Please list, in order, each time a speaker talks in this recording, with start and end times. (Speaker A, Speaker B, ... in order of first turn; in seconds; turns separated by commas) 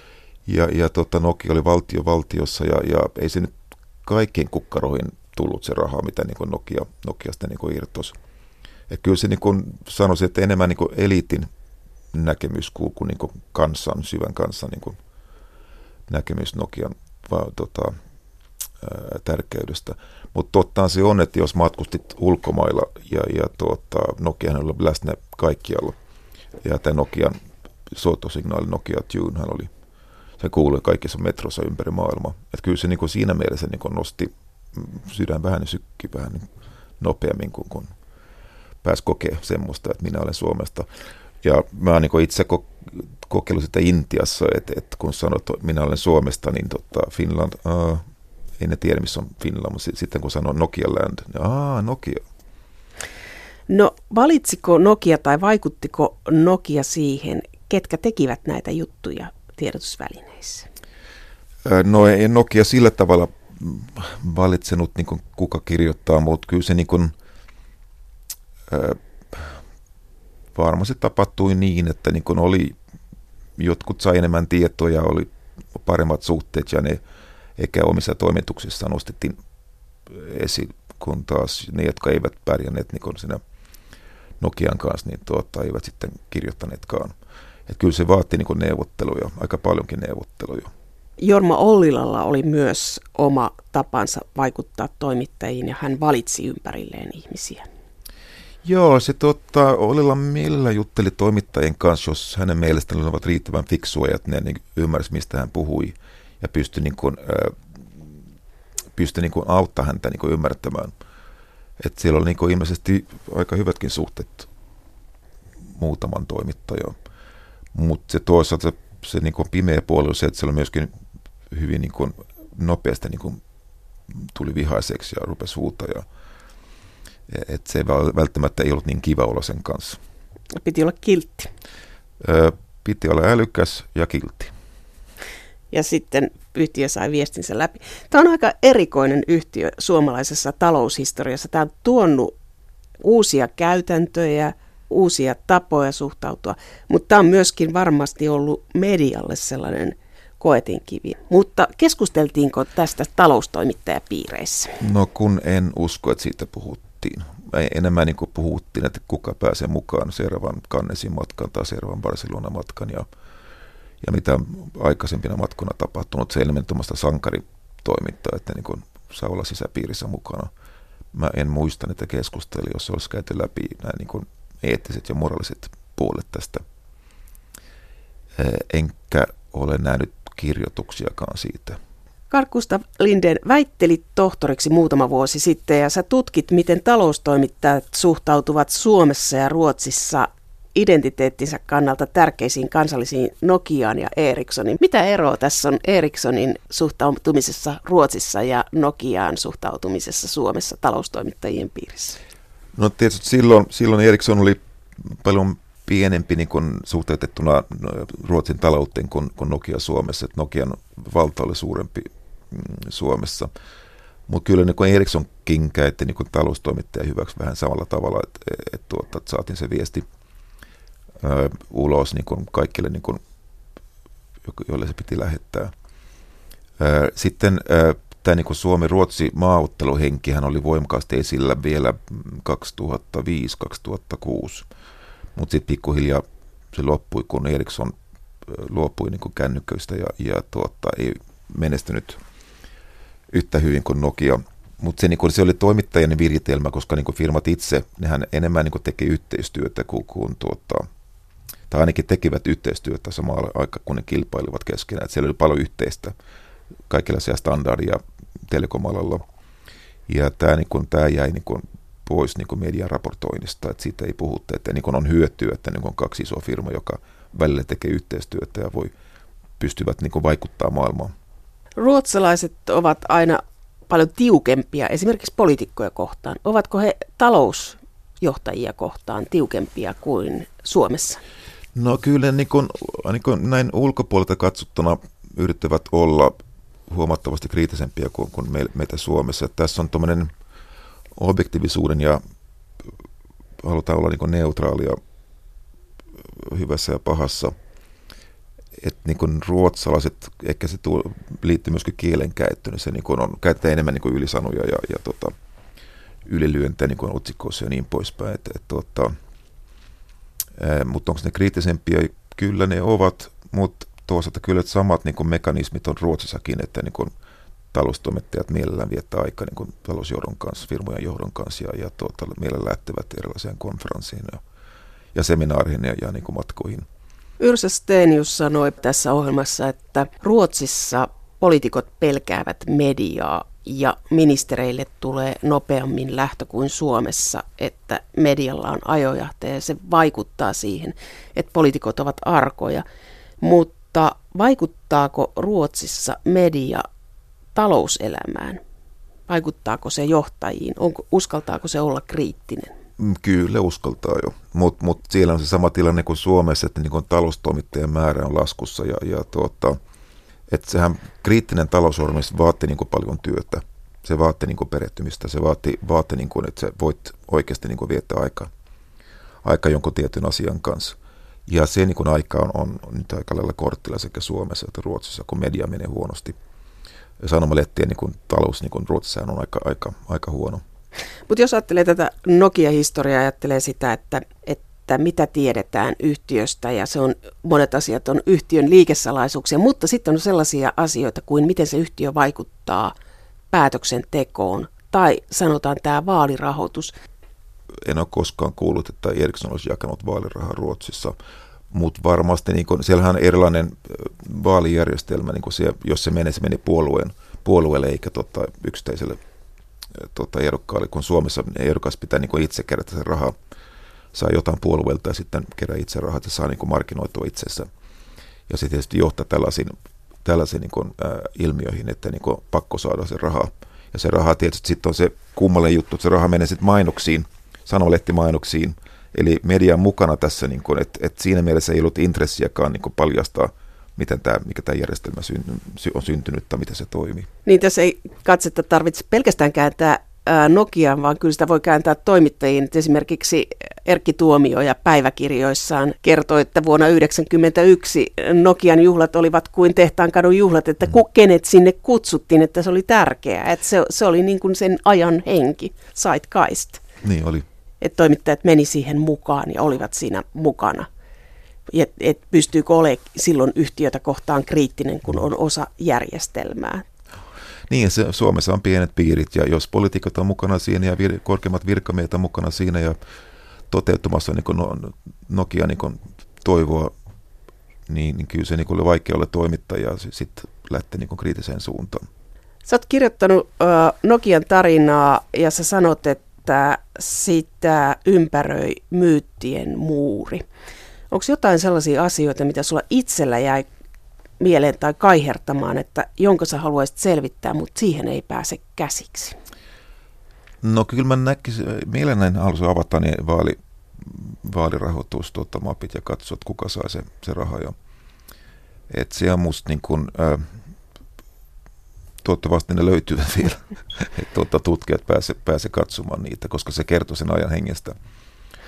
Speaker A: 0.5-8.2, Speaker A: 8.9-11.5, Speaker A: 12.1-15.0, Speaker A: 16.1-17.9, Speaker A: 18.8-26.0, Speaker A: 26.6-27.3, Speaker A: 27.9-29.7, Speaker A: 30.4-36.5, Speaker A: 37.0-37.9, Speaker A: 38.8-40.9, Speaker A: 41.4-48.0, Speaker A: 48.6-52.2, Speaker B: 53.7-60.7, Speaker A: 61.6-67.1, Speaker A: 68.7-69.6, Speaker A: 70.5-72.8, Speaker A: 73.6-77.0, Speaker A: 77.6-79.4, Speaker A: 80.1-83.4, Speaker A: 84.4-87.1, Speaker A: 87.7-90.7, Speaker B: 91.2-97.7, Speaker A: 98.6-108.0, Speaker A: 108.9-110.9, Speaker A: 111.8-114.5, Speaker A: 115.7-116.9, Speaker A: 117.7-120.9, Speaker A: 121.5-123.4, Speaker A: 124.1-126.0, Speaker A: 127.3-130.0, Speaker B: 130.6-131.5, Speaker A: 132.2-134.5, Speaker B: 135.7-142.3, Speaker B: 143.0-154.8, Speaker A: 154.8-163.1, Speaker A: 164.0-170.5, Speaker A: 171.1-176.6, Speaker A: 178.4-181.8, Speaker B: 182.3-202.2, Speaker A: 202.7-213.5, Speaker A: 214.3-220.0, Speaker A: 221.2-223.2, Speaker A: 224.4-225.7, Speaker A: 226.8-234.7, Speaker A: 235.3-237.9, Speaker A: 238.5-242.2, Speaker A: 243.3-250.9, Speaker A: 251.7-256.1, Speaker A: 256.9-259.2, Speaker A: 260.1-268.9, Speaker A: 269.6-271.1, Speaker B: 271.8-281.2, Speaker A: 281.7-286.3, Speaker A: 286.9-290.3, Speaker A: 291.1-292.2, Speaker A: 293.6-295.0, Speaker A: 296.3-297.5, Speaker A: 298.8-305.3, Speaker A: 306.2-309.1, Speaker A: 310.6-317.1, Speaker A: 317.7-324.4, Speaker A: 325.1-326.9, Speaker B: 327.4-342.8, Speaker B: 343.4-346.9, Speaker B: 347.5-348.6, Speaker B: 349.3-352.7, Speaker A: 353.0-359.8, Speaker A: 360.5-368.5, Speaker A: 369.4-376.4, Speaker A: 377.2-380.6, Speaker B: 381.3-392.9, Speaker B: 393.5-396.9, Speaker A: 397.8-401.1, Speaker A: 401.7-409.2, Speaker A: 409.9-413.3, Speaker A: 414.1-417.7, Speaker A: 418.5-437.3, Speaker B: 437.4-456.8, Speaker A: 457.0-457.4, Speaker B: 457.8-460.9, Speaker B: 461.7-466.8, Speaker A: 467.7-473.0, Speaker A: 473.7-476.9, Speaker A: 477.9-482.0, Speaker B: 482.6-490.4, Speaker B: 491.1-493.6, Speaker B: 494.4-499.4, Speaker A: 500.6-507.7, Speaker A: 508.9-510.6, Speaker A: 512.2-518.0